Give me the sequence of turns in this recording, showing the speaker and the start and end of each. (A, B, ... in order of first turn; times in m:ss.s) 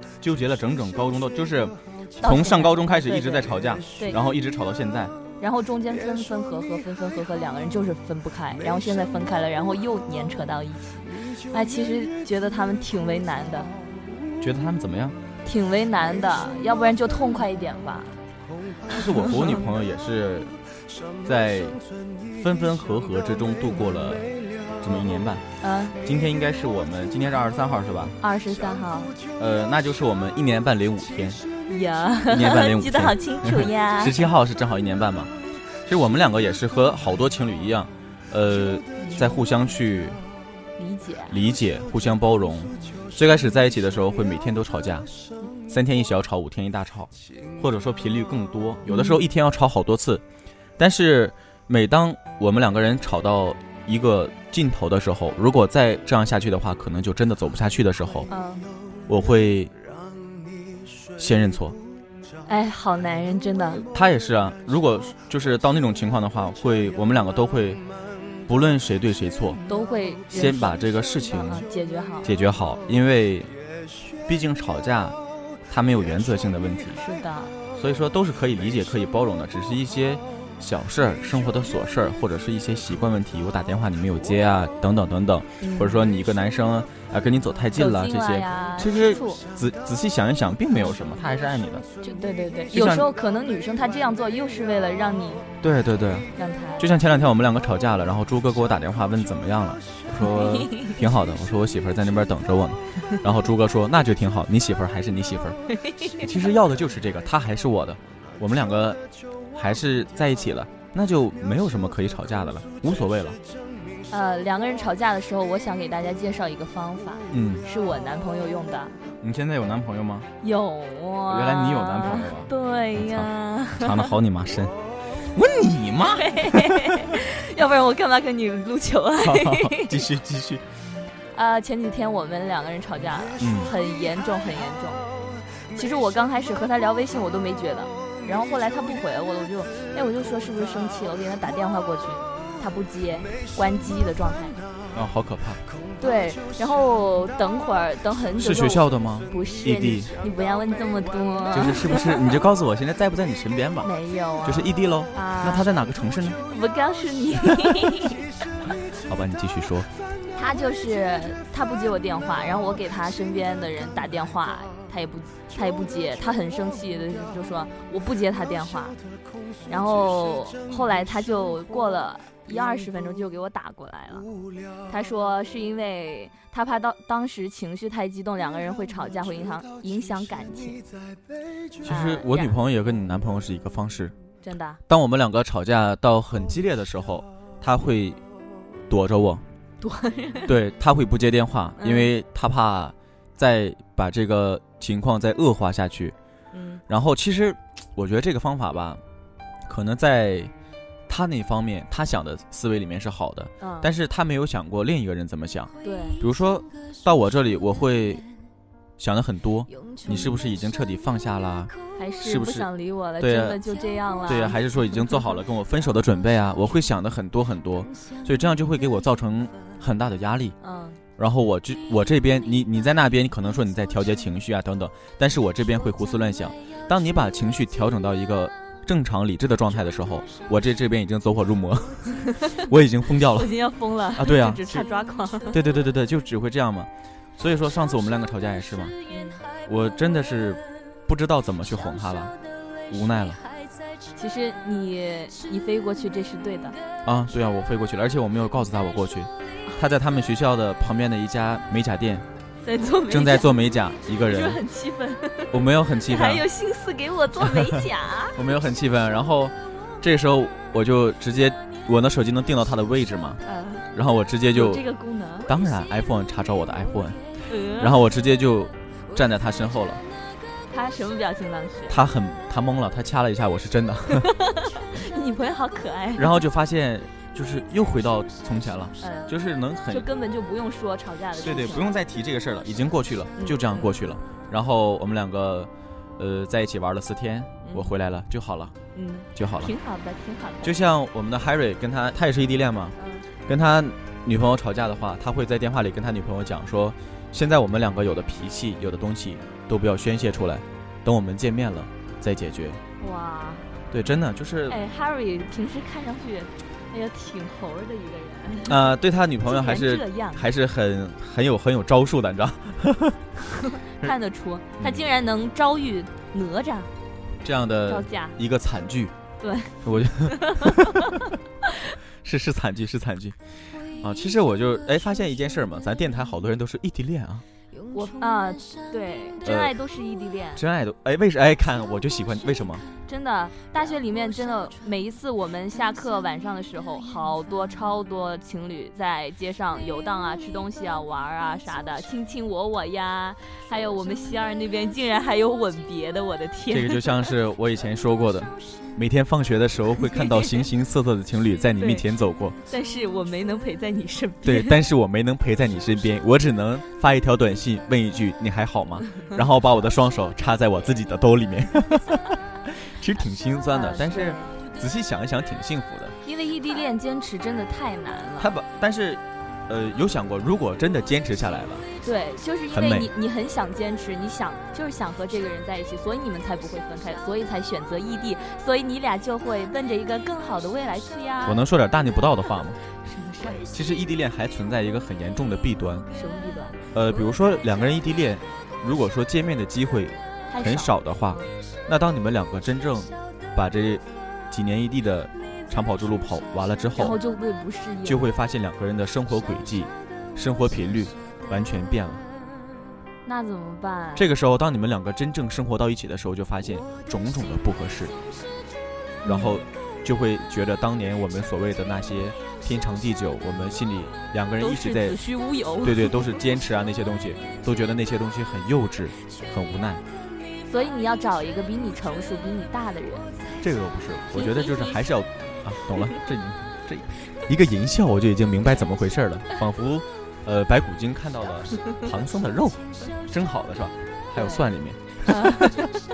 0:00.2-0:05.1 A
0:02.2-0:04.2 B
0:05.4-0:13.7 B
0:14.4-0:15.2 A
0:15.4-0:18.2 B
0:18.9-0:20.5 A
0:18.9-0:19.6 B
0:21.2-0:21.8 A
0:22.3-0:25.4 A
0:25.6-0:26.0 B
0:26.0-0:28.2 A
0:28.2-0:29.2 B
0:29.4-0:31.4 A
0:31.7-0:34.2 B
0:32.3-0:35.3 A
0:35.8-0:40.2 A
0:39.0-0:39.4 B
0:40.8-0:41.4 B
0:41.3-0:45.1 A
0:45.7-0:50.2 A
0:48.8-0:49.2 B
0:50.8-0:58.3 A
0:58.3-0:58.7 B
0:59.1-0:59.7 A
1:01.2-1:01.8 A
1:02.4-1:03.8 B
1:03.9-1:07.8 A
1:08.5-1:09.6 A
1:09.5-1:10.7 B
1:10.3-1:11.7 A
1:11.4-1:12.3 B
1:12.2-1:13.5 A
1:14.2-1:15.2 A
1:15.7-1:17.0 A
1:16.9-1:17.5 B
1:17.8-1:31.8 A
1:25.6-1:26.0 B
1:27.8-1:29.4 B
1:32.0-1:35.4 B
1:32.7-1:33.1 A
1:35.6-1:45.6 A
1:36.3-1:36.8 B
1:40.2-1:40.9 B
1:45.8-1:46.2 B
1:46.2-1:49.0 A
1:49.5-1:53.4 A
1:54.1-1:59.0 B
1:57.3-1:57.6 A
1:59.2-2:00.3 A
2:00.4-2:04.1 B
2:01.3-2:04.8 A
2:05.3-2:06.9 A
2:06.0-2:10.0 B
2:09.2-2:10.6 A
2:11.3-2:15.1 B
2:13.4-2:13.7 A
2:15.7-2:24.6 B
2:24.9-2:25.6 A
2:26.0-2:32.2 B
2:28.4-2:30.1 A
2:31.5-2:33.9 A
2:33.8-2:35.7 B
2:34.4-2:36.4 A
2:36.5-2:38.3 B
2:39.0-2:39.9 A
2:40.3-2:49.0 B
2:49.6-2:54.3 B
2:54.9-3:00.8 B
3:01.8-3:04.1 A
3:01.8-3:02.6 B
3:04.4-3:04.8 B
3:04.9-3:08.2 A
3:08.9-3:09.4 A
3:09.8-3:10.5 B
3:10.5-3:16.1 A
3:11.8-3:12.1 B
3:16.5-3:16.8 B
3:16.9-3:19.0 A
3:19.7-3:20.5 A
3:21.1-3:28.2 A
3:23.6-3:23.9 B
3:25.8-3:26.2 B
3:29.0-3:31.7 A
3:30.0-3:30.4 B
3:32.0-3:34.6 B
3:32.2-3:32.7 A
3:33.2-3:33.6 A
3:34.3-3:40.6 A
3:40.6-3:41.0 B
3:41.2-3:53.5 A
3:53.3-3:55.6 B
3:54.1-3:54.8 A
3:55.5-3:58.9 A
3:59.0-3:59.4 B
3:59.6-4:02.3 A
4:02.9-4:03.4 A
4:04.1-4:06.8 B
4:07.0-4:12.2 A
4:12.6-4:13.7 B
4:13.1-4:14.6 A
4:14.2-4:18.4 B
4:15.5-4:16.4 A
4:17.4-4:17.8 A
4:18.3-4:23.4 A
4:23.4-4:23.9 B
4:23.9-4:24.8 A
4:24.5-4:25.5 B
4:25.5-4:27.2 A
4:27.4-4:28.0 B
4:27.8-4:30.0 A
4:30.7-4:32.0 B
4:31.9-4:34.3 A
4:34.1-4:36.3 B
4:36.2-4:40.0 A
4:39.0-4:39.3 B
4:39.9-4:42.0 B
4:41.4-4:48.7 A
4:43.4-4:43.8 B
4:47.6-4:47.9 B
4:48.9-4:50.7 B
4:49.3-4:49.7 A
4:50.6-5:02.8 A
4:53.0-4:53.3 B
5:03.0-5:03.7 B
5:03.9-5:04.8 A
5:04.7-5:08.9 B
5:08.6-5:13.2 A
5:09.4-5:10.5 B
5:13.5-5:16.9 B
5:17.4-5:19.1 A
5:17.9-5:18.3 B
5:19.4-5:21.2 B
5:19.8-5:21.0 A
5:22.2-5:23.4 A
5:24.0-5:27.4 A
5:27.9-5:30.6 B
5:29.4-5:29.7 A
5:30.6-5:32.8 A
5:33.0-5:47.3 B
5:46.7-5:52.6 A
5:50.1-5:50.6 B
5:51.8-5:52.0 B
5:52.7-5:54.8 B
5:54.4-6:06.1 A
6:03.7-6:04.6 B
6:06.2-6:08.5 B
6:08.4-6:11.8 A
6:12.0-6:21.6 B
6:12.7-6:13.1 A
6:21.4-6:22.8 A
6:23.0-6:23.7 B
6:23.7-6:26.1 A
6:26.1-6:26.8 B
6:26.9-6:37.2 A
6:30.5-6:31.5 B
6:37.0-6:38.3 B
6:38.0-6:42.2 A
6:43.2-6:44.3 B
6:44.2-6:48.1 A
6:49.2-6:49.6 B
6:49.2-6:55.2 A
6:54.6-6:56.1 B
6:55.8-7:00.0 A
7:00.7-7:03.3 B
7:03.6-7:15.9 A
7:04.3-7:04.9 B
7:14.4-7:14.6 B
7:15.2-7:15.9 B